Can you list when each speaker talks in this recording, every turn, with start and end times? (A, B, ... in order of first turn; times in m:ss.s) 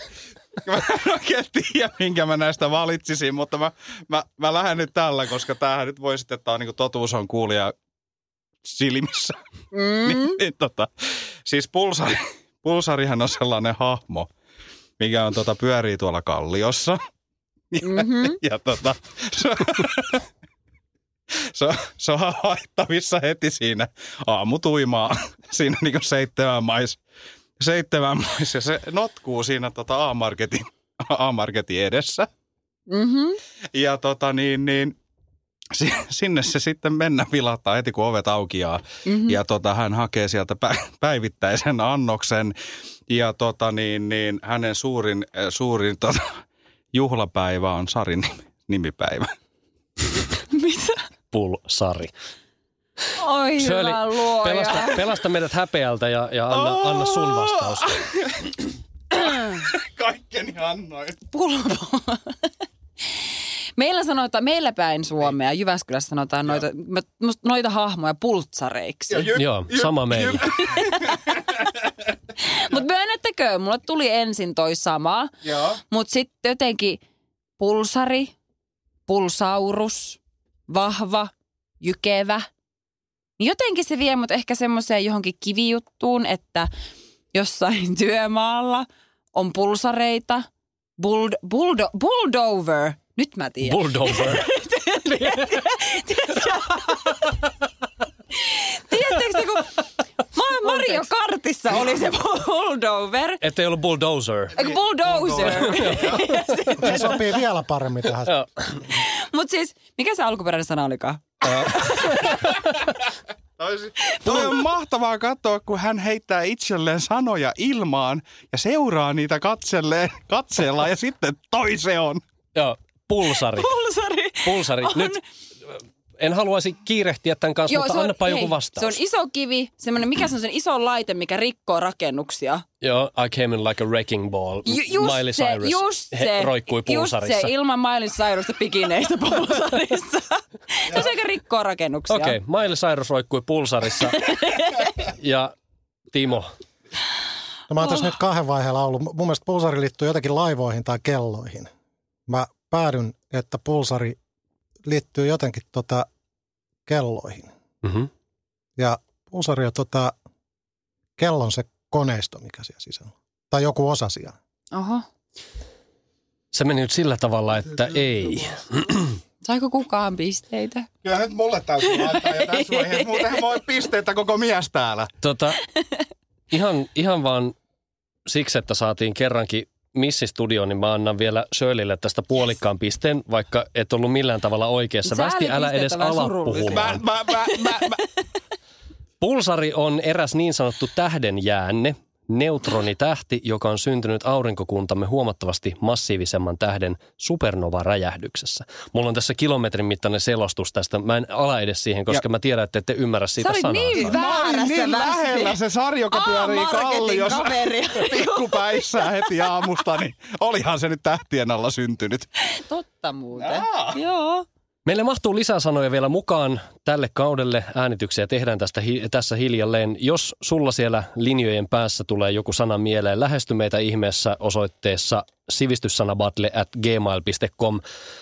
0:00.6-0:07.7 A
0:08.6-0:09.4 A
0:09.7-0:10.4 B
0:10.0-0:10.9 A
0:11.4-0:14.3 A
0:15.0-0:17.0 A
0:17.7-0:20.3 A
0:17.8-0:18.4 B
0:21.5-0:27.0 A
0:27.6-0:32.3 A
0:32.9-0:33.4 B
0:33.7-0:35.0 A
0:35.7-0:42.5 A
0:39.1-0:39.4 B
0:43.1-0:46.4 A
0:46.9-0:49.3 A
0:50.5-0:51.0 B
0:51.3-0:52.1 C
0:53.2-0:55.1 B
0:53.6-0:58.0 C
0:56.5-1:01.2 A
1:01.3-1:02.5 B
1:03.8-1:09.3 B
1:09.1-1:11.6 A
1:09.3-1:10.5 C
1:10.4-1:11.4 B
1:12.4-1:17.0 B
1:15.4-1:15.8 A
1:17.6-1:18.3 B
1:19.1-1:22.5 B
1:23.4-1:26.7 B
1:27.3-1:30.5 B
1:31.0-1:37.5 B
1:33.6-1:34.5 C
1:38.3-1:43.4 B
1:43.4-1:44.6 C
1:44.6-1:46.3 A
1:44.6-1:47.3 B
1:45.6-1:46.2 C
1:46.8-1:48.4 D
1:48.3-1:48.8 C
1:48.8-1:52.6 B
1:51.5-1:52.6 C
1:53.6-2:02.2 A
1:54.1-1:54.7 B
2:02.6-2:03.7 C
2:03.4-2:05.2 B
2:04.4-2:05.2 C
2:06.2-2:09.0 C
2:07.7-2:12.6 B
2:12.8-2:17.5 C
2:14.7-2:22.4 B
2:22.1-2:24.4 C
2:24.0-2:24.9 B
2:25.1-2:25.5 C
2:26.1-2:26.5 C
2:27.7-2:31.7 D
2:32.3-2:34.2 D
2:34.9-2:36.1 D
2:36.9-2:37.5 D
2:37.8-2:38.1 C
2:38.8-2:40.1 D
2:41.2-2:44.4 D
2:44.7-2:45.1 B
2:46.5-2:49.2 C
2:49.4-2:50.9 B
2:51.0-2:55.1 A
2:51.9-2:53.4 B
2:55.2-2:55.6 C
2:56.5-2:57.6 C
2:58.3-3:07.0 C
3:05.0-3:07.8 B
3:06.7-3:08.0 A
3:09.2-3:24.2 C
3:23.4-3:25.6 B
3:23.9-3:32.3 A
3:26.1-3:29.3 B
3:32.6-3:34.5 B
3:33.4-3:34.0 A
3:34.9-3:47.8 C